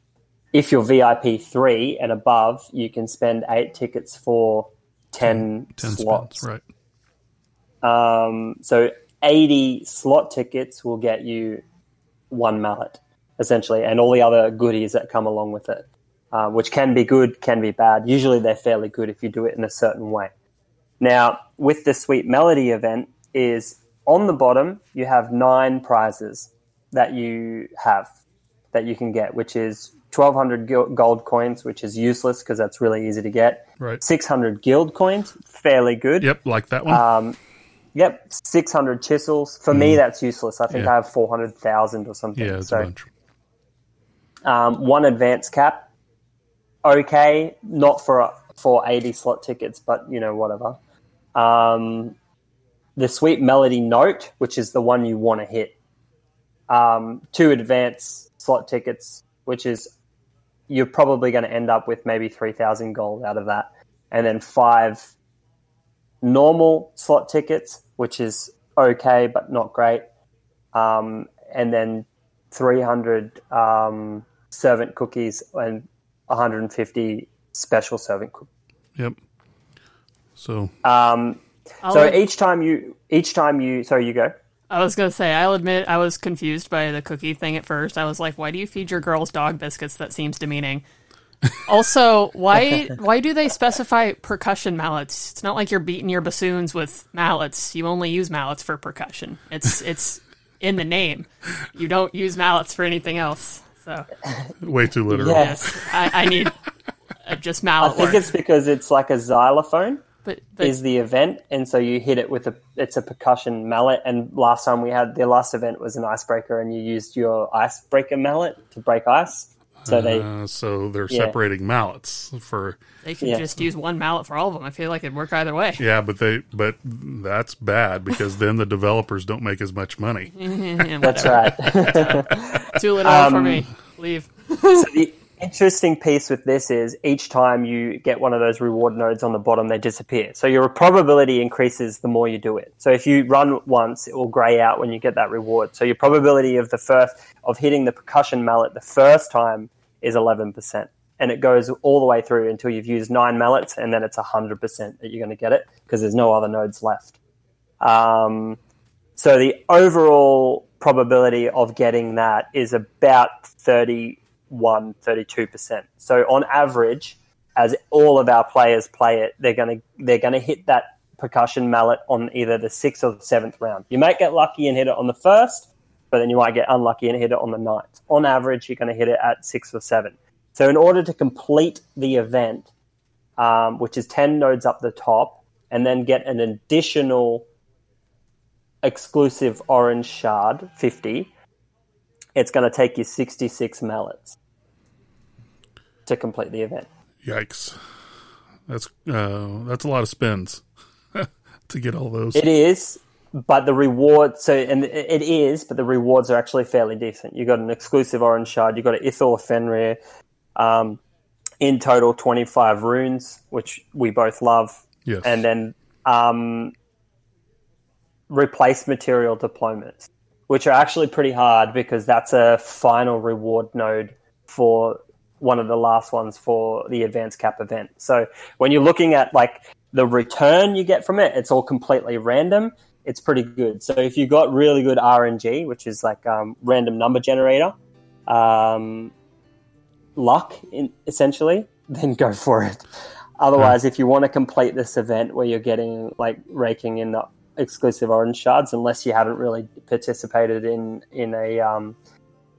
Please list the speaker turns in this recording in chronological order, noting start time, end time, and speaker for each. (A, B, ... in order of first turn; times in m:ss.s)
0:00.5-0:06.4 A
0:05.2-0:06.6 B
0:07.8-0:11.6 A
0:12.3-0:20.3 A
0:21.0-0:28.1 A
0:28.7-0:36.3 A
0:36.2-0:37.0 B
0:36.9-0:37.4 A
0:37.9-0:42.9 A
0:39.7-0:40.0 B
0:42.4-0:43.1 B
0:44.4-0:45.9 A
0:46.8-0:50.8 A
0:51.3-0:52.2 A
0:53.0-0:55.7 A
0:56.7-0:59.9 A
1:00.7-1:05.1 A
1:06.2-1:10.0 A
1:10.7-1:18.5 A
1:20.4-1:20.7 B
1:20.8-1:24.3 A
1:21.8-1:22.2 C
1:24.7-1:30.8 C
1:31.5-1:44.1 C
1:44.6-1:46.5 B
1:45.1-1:45.7 A
1:45.4-1:46.6 C
1:47.2-1:48.2 C
1:47.8-1:50.0 A
1:50.2-1:50.8 C
1:50.6-2:00.3 A
1:59.8-2:02.8 B
2:01.1-2:01.4 A
2:03.0-2:05.8 C
2:03.2-2:03.5 A
2:05.8-2:11.3 B
2:10.4-2:14.9 C
2:11.0-2:13.7 A
2:14.7-2:37.2 A
2:37.8-2:38.6 A
2:39.2-3:02.7 A
3:03.4-3:07.4 A
3:08.8-3:11.3 A
3:12.4-3:14.4 A
3:16.0-3:16.9 A
3:17.2-3:17.8 B
3:18.7-3:22.4 B
3:22.3-3:30.0 A
3:30.6-3:31.0 A
3:31.6-3:36.7 A
3:35.0-3:35.4 B
3:38.3-3:57.7 A
3:58.3-3:59.1 A
4:00.2-4:02.8 A
4:03.4-4:12.0 A